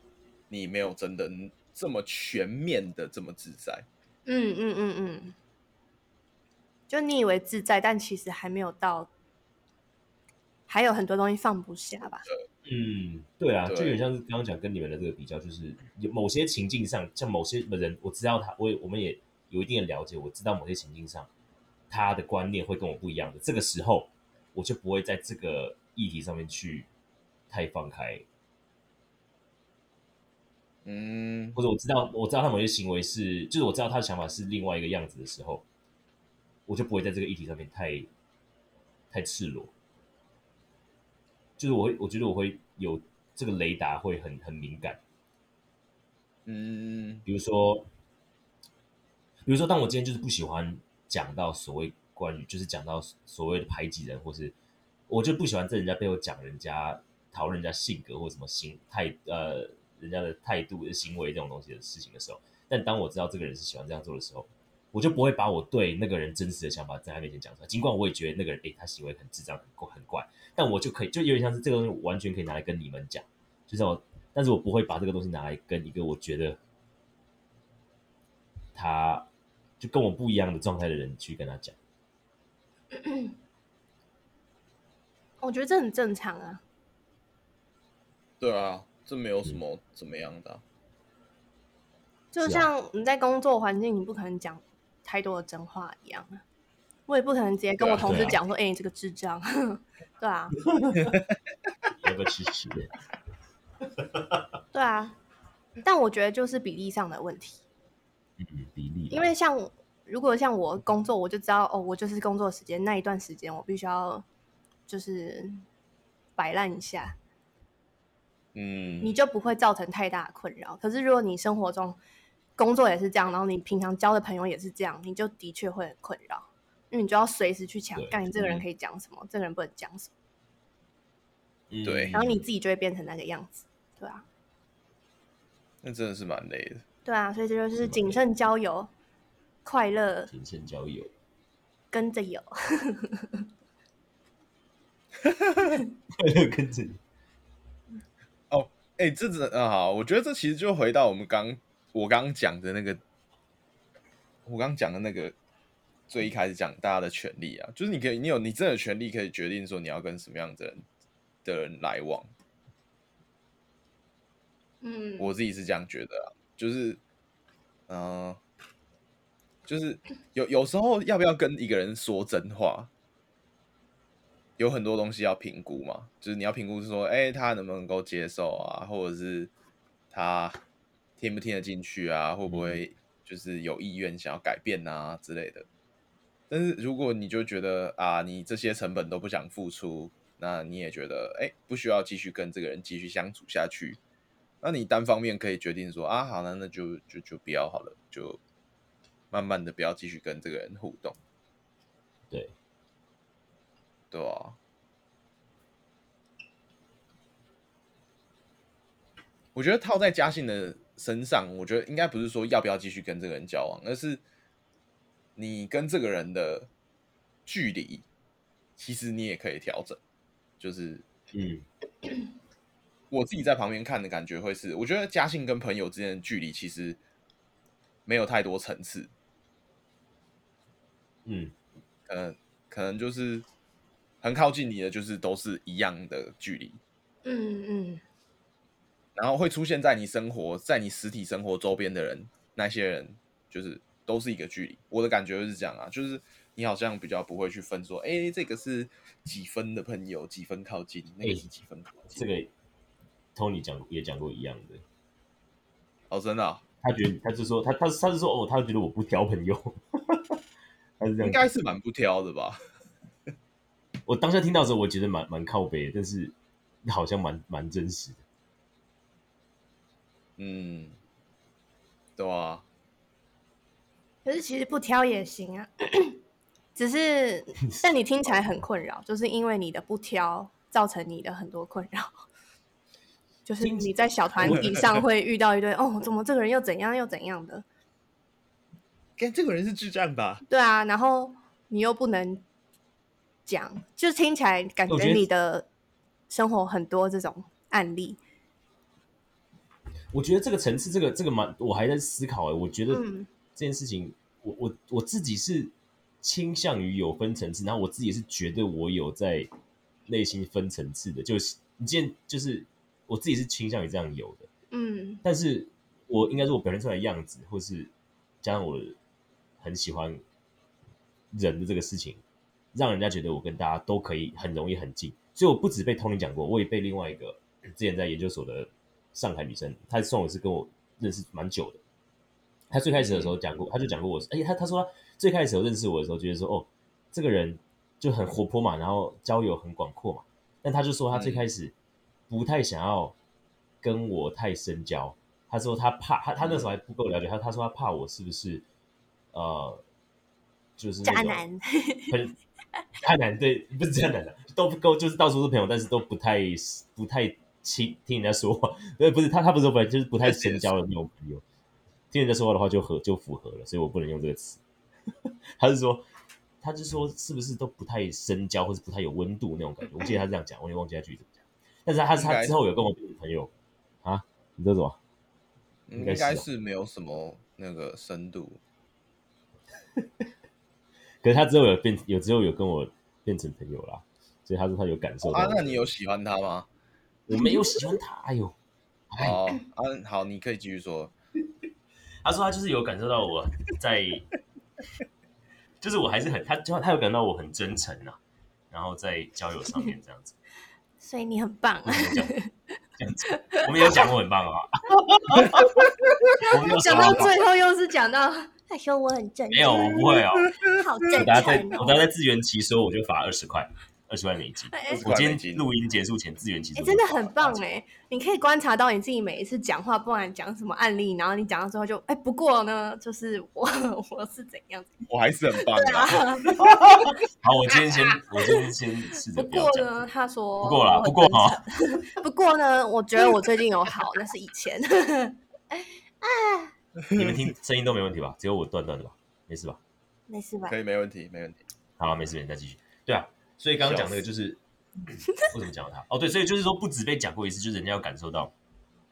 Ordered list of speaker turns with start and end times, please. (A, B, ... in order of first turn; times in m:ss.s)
0:00.5-0:03.9 A
0:04.3-0:05.4 B
0:06.9-0:09.1 B
0:10.7-0:12.3 B
0:12.6-0:21.3 C
0:13.6-0:14.0 A
0:21.9-0:26.9 C
0:27.5-0:28.2 C
0:30.8-0:31.6 A
0:31.5-0:35.6 C
0:36.7-0:38.1 C
0:39.1-0:39.7 C
0:41.6-0:45.0 C
0:46.5-0:47.2 A
0:47.3-0:47.9 C
0:49.4-0:54.5 C
0:55.1-1:16.6 C
1:18.8-1:19.3 C
1:19.8-1:21.8 C
1:22.9-1:23.3 B
1:25.4-1:26.6 B
1:28.4-1:30.6 A
1:32.3-1:36.4 B
1:32.4-1:32.7 C
1:37.1-1:40.6 B
1:37.8-1:38.3 A
1:38.0-1:38.4 C
1:40.7-1:41.1 C
1:42.0-1:42.9 C
1:43.8-1:44.5 C
1:44.7-1:45.2 B
1:45.8-1:47.6 B
1:48.4-1:49.3 C
1:49.1-1:54.2 B
1:54.9-1:55.6 B
1:56.4-1:57.2 B
1:58.6-1:59.2 A
1:59.0-2:02.0 B
2:02.6-2:10.1 B
2:08.0-2:08.6 C
2:11.7-2:12.4 C
2:11.8-2:12.2 A
2:12.1-2:14.2 B
2:15.8-2:16.8 A
2:17.1-2:18.9 B
2:17.7-2:18.2 C
2:19.6-2:20.3 B
2:20.3-2:21.1 C
2:21.9-2:23.3 B
2:25.2-2:25.6 A
2:26.2-2:27.0 C
2:28.5-2:33.0 A
2:34.5-2:35.4 A
2:36.1-2:40.8 A
2:41.4-2:42.3 A
2:44.8-2:45.3 B
2:45.2-2:47.0 A
2:47.9-2:48.4 A
2:49.7-2:52.9 A
2:54.6-2:59.5 A
3:00.1-3:00.6 A
3:01.2-3:05.7 A
3:02.5-3:02.8 C
3:06.5-3:14.0 A
3:14.6-3:18.4 A
3:19.3-3:21.2 A
3:24.1-3:24.6 A
3:29.6-3:34.2 A
3:35.4-3:36.7 A
3:37.5-3:38.0 A
3:38.8-3:40.0 A
3:40.6-3:41.0 A
3:41.3-3:41.6 C
3:43.1-3:47.0 A
3:48.1-3:49.1 A
3:51.2-3:51.5 C
3:52.1-3:53.4 A
3:54.2-3:56.8 A
3:57.2-3:58.0 B
3:59.2-4:12.2 A
4:12.1-4:12.5 C
4:13.4-4:14.8 C
4:16.1-4:16.6 A
4:16.8-4:20.4 C
4:21.0-4:21.4 C
4:21.2-4:22.6 A
4:24.1-4:28.2 C
4:30.4-4:31.0 A
4:32.2-4:32.6 A
4:34.2-4:36.2 B
4:36.8-4:42.1 B
4:43.5-4:47.6 B
4:43.6-4:44.8 C
4:49.2-4:50.4 A
4:50.5-4:52.4 B
4:53.5-4:55.7 B
4:54.9-4:55.3 C
4:56.3-4:58.2 B
5:00.1-5:09.5 C
5:02.9-5:03.3 B
5:10.1-5:14.5 C
5:14.7-5:15.2 B
5:15.2-5:19.0 C
5:19.6-5:20.2 C
5:21.3-5:22.2 C
5:22.7-5:31.8 C
5:32.7-5:41.7 C
5:33.0-5:33.4 A
5:41.1-5:41.5 A
5:42.3-5:43.2 C
5:43.8-5:48.6 C
5:46.4-5:46.8 A
5:49.3-5:49.8 C
5:50.8-5:51.4 C
5:51.0-5:52.2 B
5:52.1-5:52.4 C
5:53.0-6:01.4 C
6:00.2-6:00.7 A
6:02.1-6:04.6 C
6:05.6-6:06.1 C
6:06.6-6:13.5 C
6:12.1-6:12.6 A
6:14.0-6:15.0 C
6:15.9-6:18.6 A
6:16.0-6:16.4 C
6:20.0-6:20.2 C
6:21.2-6:25.9 C
6:25.2-6:26.7 A
6:27.3-6:28.6 C
6:29.1-6:29.4 C
6:29.2-6:31.1 A
6:32.2-6:34.2 C
6:35.8-6:38.2 C
6:38.7-6:40.4 C
6:41.0-6:42.5 B
6:41.8-6:42.4 C
6:43.0-6:45.8 C
6:43.3-6:44.0 B
6:46.4-6:47.3 C
6:46.5-6:52.0 B
6:49.5-6:50.6 C
6:51.1-6:57.6 C
6:54.7-6:55.1 B
6:54.9-6:55.6 A
6:56.8-7:04.9 B
7:05.1-7:06.2 A
7:05.6-7:07.2 B
7:06.5-7:10.1 C
7:07.8-7:08.7 B
7:09.3-7:16.7 B
7:10.6-7:11.6 C
7:17.1-7:19.8 C
7:20.3-7:20.8 B
7:20.7-7:21.6 A
7:22.0-7:24.6 C
7:23.8-7:24.2 A
7:25.3-7:28.5 C